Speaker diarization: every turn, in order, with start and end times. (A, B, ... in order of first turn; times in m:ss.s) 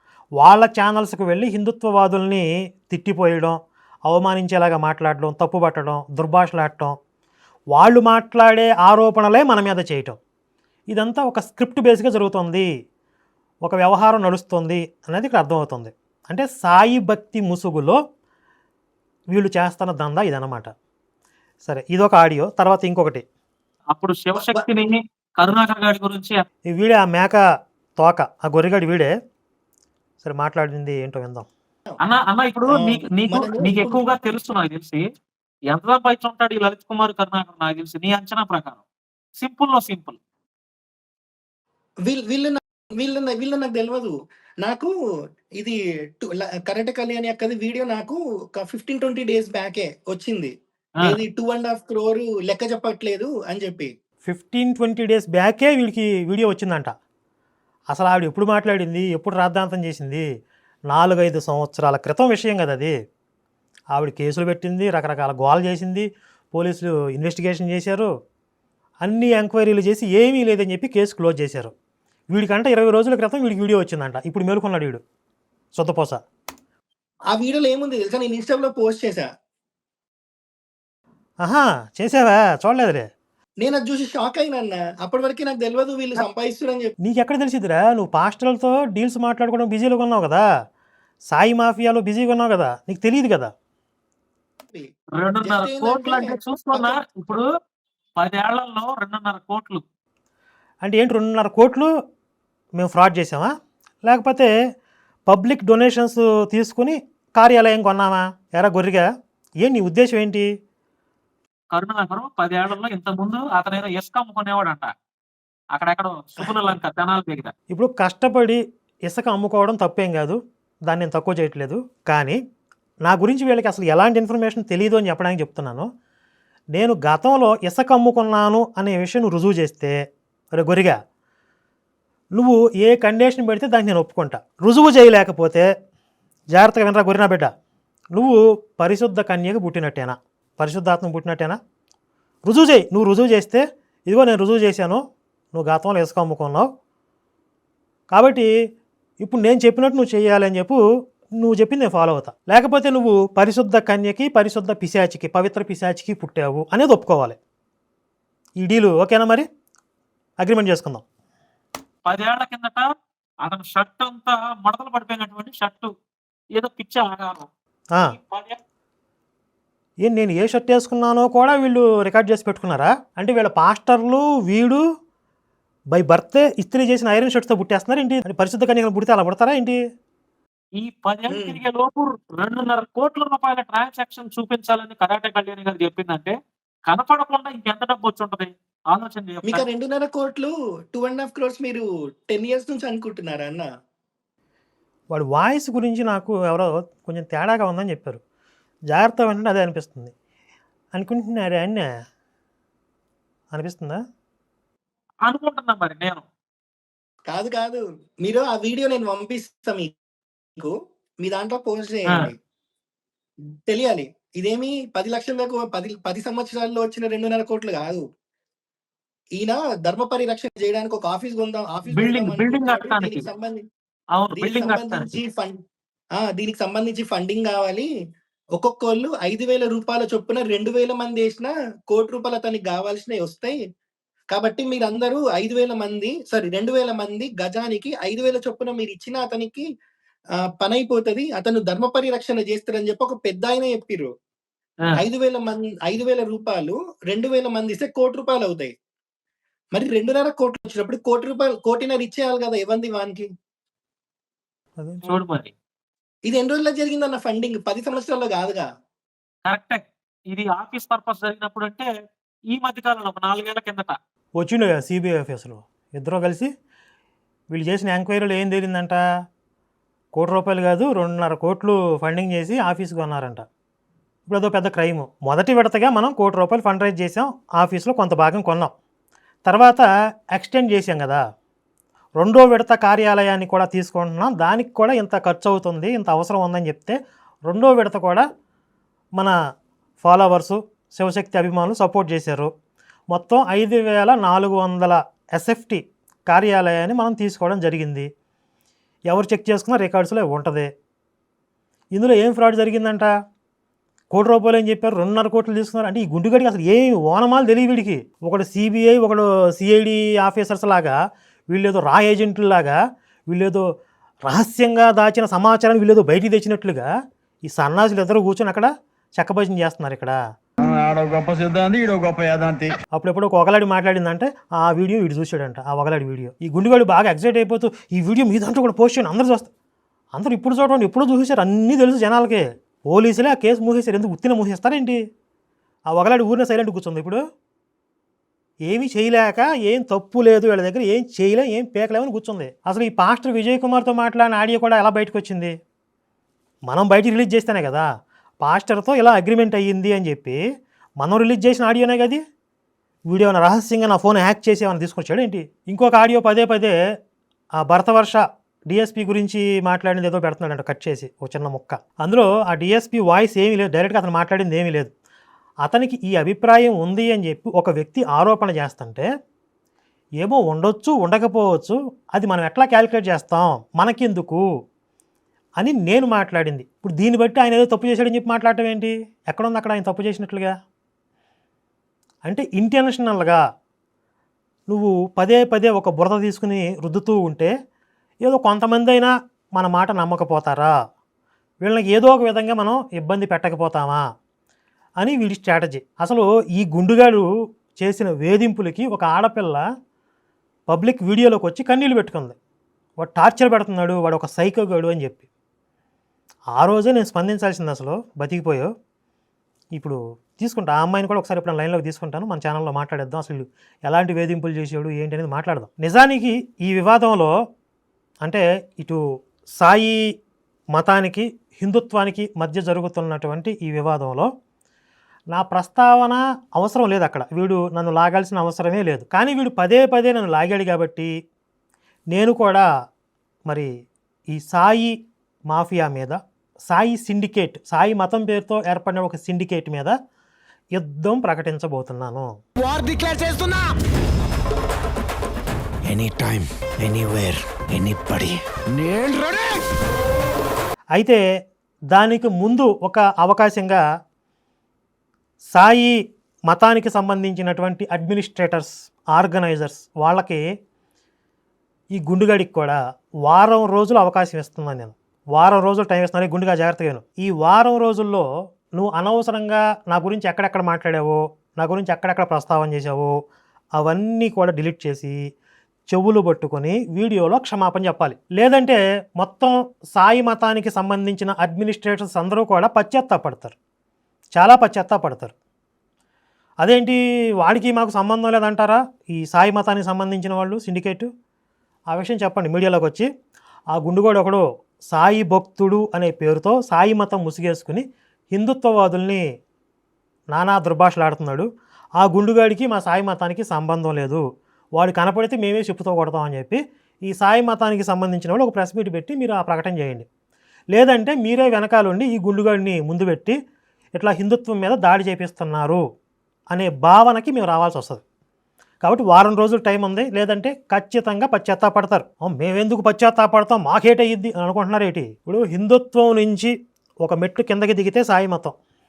0:00.4-0:07.0 A
0:07.7-0:10.2 A
0:10.9-0:12.7 A
0:13.6-0:18.0 A
0:19.3-0:20.7 A
0:21.6-0:23.2 A
0:23.9-0:26.4 B
0:26.7-0:27.4 A
0:28.0-0:29.1 A
0:30.2-0:31.5 A
0:32.0-0:35.0 B
0:32.8-0:34.0 C
0:35.7-0:38.8 B
0:39.4-0:40.2 B
0:42.1-0:44.9 C
0:45.6-0:53.9 C
0:54.2-0:56.9 A
0:57.9-1:00.2 A
1:00.9-1:02.9 A
1:03.9-1:08.1 A
1:09.0-1:11.7 A
1:12.3-1:15.0 A
1:15.8-1:16.2 A
1:17.3-1:19.3 C
1:21.4-1:23.0 A
1:23.6-1:26.9 C
1:27.0-1:30.4 A
1:31.3-1:33.5 A
1:35.2-1:37.4 B
1:35.4-1:36.9 C
1:38.2-1:39.8 B
1:40.8-1:41.9 A
1:42.8-1:43.5 A
1:44.0-1:44.5 A
1:45.3-1:49.1 A
1:49.6-1:50.5 A
1:51.7-1:54.9 B
1:55.7-1:57.5 B
1:57.7-2:02.4 A
2:03.1-2:05.9 A
2:06.8-2:09.9 A
2:10.6-2:11.0 A
2:12.4-2:15.7 A
2:16.5-2:17.5 A
2:18.2-2:21.6 A
2:22.5-2:25.0 A
2:25.5-2:26.7 A
2:28.1-2:28.5 A
2:29.2-2:30.8 A
2:31.4-2:37.4 A
2:38.6-2:39.5 A
2:40.4-2:41.0 A
2:42.1-2:42.8 B
2:43.4-2:45.9 B
2:46.6-2:47.5 B
2:48.0-2:48.6 B
2:50.0-2:54.8 A
2:55.9-2:59.8 A
3:00.8-3:06.3 B
3:06.9-3:09.6 B
3:09.5-3:13.6 C
3:15.1-3:18.2 A
3:18.9-3:20.1 A
3:21.0-3:21.9 A
3:23.5-3:24.0 A
3:25.2-3:26.2 B
3:27.3-3:29.9 C
3:30.6-3:32.4 C
3:33.7-3:38.0 C
3:39.4-3:43.6 C
3:41.9-3:43.2 B
3:44.2-3:45.2 B
3:44.4-3:45.6 C
3:46.2-3:47.9 C
3:48.6-3:53.6 C
3:54.3-3:59.6 C
4:00.6-4:04.1 C
4:05.0-4:08.7 C
4:09.8-4:13.3 C
4:14.8-4:15.2 A
4:15.1-4:15.5 B
4:16.3-4:18.6 C
4:19.5-4:21.9 B
4:22.5-4:23.9 B
4:24.4-4:26.5 A
4:27.5-4:29.0 A
4:30.1-4:33.4 A
4:34.3-4:38.7 A
4:39.5-4:41.2 A
4:42.2-4:48.2 A
4:50.0-4:52.5 A
4:53.1-4:58.1 A
4:59.1-5:00.7 A
5:01.9-5:03.1 A
5:04.1-5:11.0 A
5:11.5-5:12.8 A
5:13.3-5:13.6 A
5:14.3-5:16.9 A
5:17.5-5:20.2 A
5:20.6-5:22.8 D
5:22.9-5:29.5 A
5:30.1-5:35.0 A
5:35.9-5:37.2 A
5:38.7-5:45.5 A
5:46.7-5:47.9 A
5:48.4-5:50.4 A
5:51.0-5:52.2 A
5:53.1-5:56.8 A
5:57.6-6:04.9 A
6:05.6-6:09.1 A
6:10.2-6:14.4 A
6:15.6-6:20.5 A
6:22.3-6:23.4 A
6:24.7-6:27.5 A
6:28.2-6:30.7 A
6:31.6-6:34.0 A
6:35.0-6:37.3 A
6:37.8-6:39.6 A
6:40.7-6:42.4 A
6:43.0-6:45.2 A
6:46.6-6:48.7 A
6:49.8-6:57.3 A
6:58.2-6:59.0 A
6:59.6-7:00.0 A
7:00.8-7:04.3 A
7:05.3-7:11.1 A
7:12.1-7:12.7 A
7:14.3-7:15.0 A
7:15.5-7:20.0 A
7:20.8-7:22.3 A
7:22.6-7:23.5 E
7:25.9-7:29.5 E
7:31.0-7:31.2 A
7:31.9-7:33.8 A
7:35.5-7:36.0 A
7:36.5-7:40.4 A
7:42.0-7:48.2 A
7:48.8-7:53.1 A
7:53.8-7:55.2 A
7:55.9-8:03.6 A
8:04.4-8:05.3 A
8:06.6-8:11.1 A
8:11.9-8:13.1 A
8:13.7-8:19.2 A
8:20.3-8:21.5 A
8:22.0-8:24.2 A
8:24.8-8:30.1 A
8:30.7-8:33.4 A
8:34.0-8:35.8 A
8:36.5-8:38.0 A
8:38.8-8:46.5 A
8:47.0-8:48.5 A